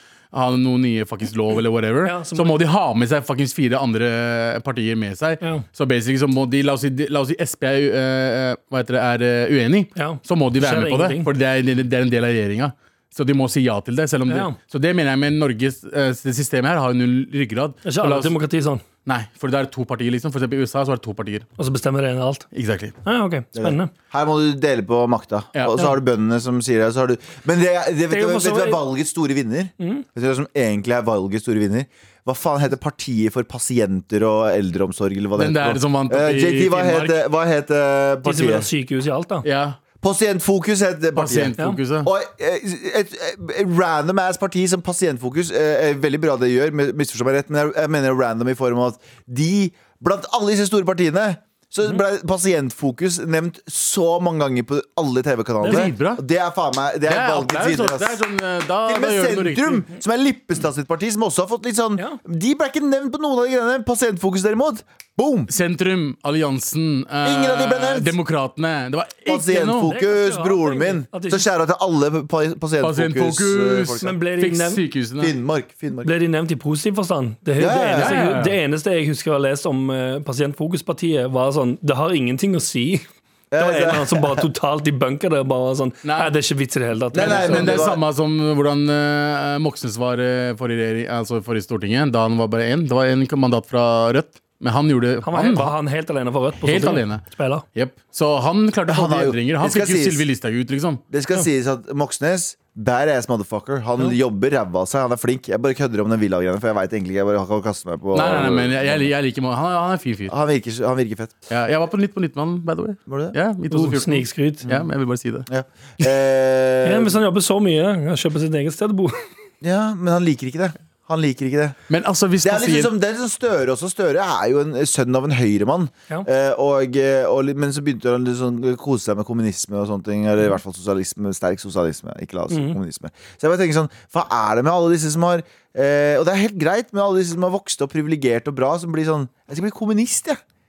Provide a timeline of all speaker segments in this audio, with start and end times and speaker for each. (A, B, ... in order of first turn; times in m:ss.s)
0:00.3-0:18.4 A
0:02.0-0:02.6 B
0:10.0-0:11.3 B
0:14.3-0:14.6 B
0:17.8-0:18.8 B
0:19.0-0:21.5 A
0:21.6-0:22.5 B
0:22.5-0:23.0 A
0:23.0-0:23.9 B
0:23.6-0:38.7 C
0:25.6-0:26.0 A
0:28.1-0:28.8 B
0:29.8-0:30.0 B
0:35.4-0:37.2 A
0:38.2-0:39.5 B
0:39.4-0:39.8 A
0:40.0-0:58.2 C
0:41.2-0:42.1 A
0:55.6-0:56.2 A
0:55.6-0:55.9 B
0:57.1-0:59.9 A
0:58.9-1:05.5 C
1:05.5-1:09.9 A
1:07.2-1:08.2 C
1:09.3-1:14.1 C
1:09.8-1:11.5 B
1:12.8-1:15.4 A
1:14.0-1:14.8 B
1:15.2-1:16.1 C
1:16.0-1:27.8 B
1:17.6-1:18.2 C
1:17.9-1:18.6 A
1:23.5-1:24.5 C
1:26.0-1:26.3 A
1:27.1-1:28.0 C
1:27.2-1:35.7 A
1:35.2-1:37.6 B
1:36.6-1:41.0 A
1:38.9-1:40.2 C
1:41.1-1:49.1 C
1:48.1-1:50.4 A
1:50.3-1:51.4 C
1:51.5-1:55.5 A
1:53.1-1:53.4 C
1:53.7-1:54.7 B
1:55.5-1:57.2 C
1:56.8-1:59.2 B
1:59.6-2:01.8 C
2:01.9-2:02.9 A
2:02.4-2:20.4 C
2:12.5-2:12.8 B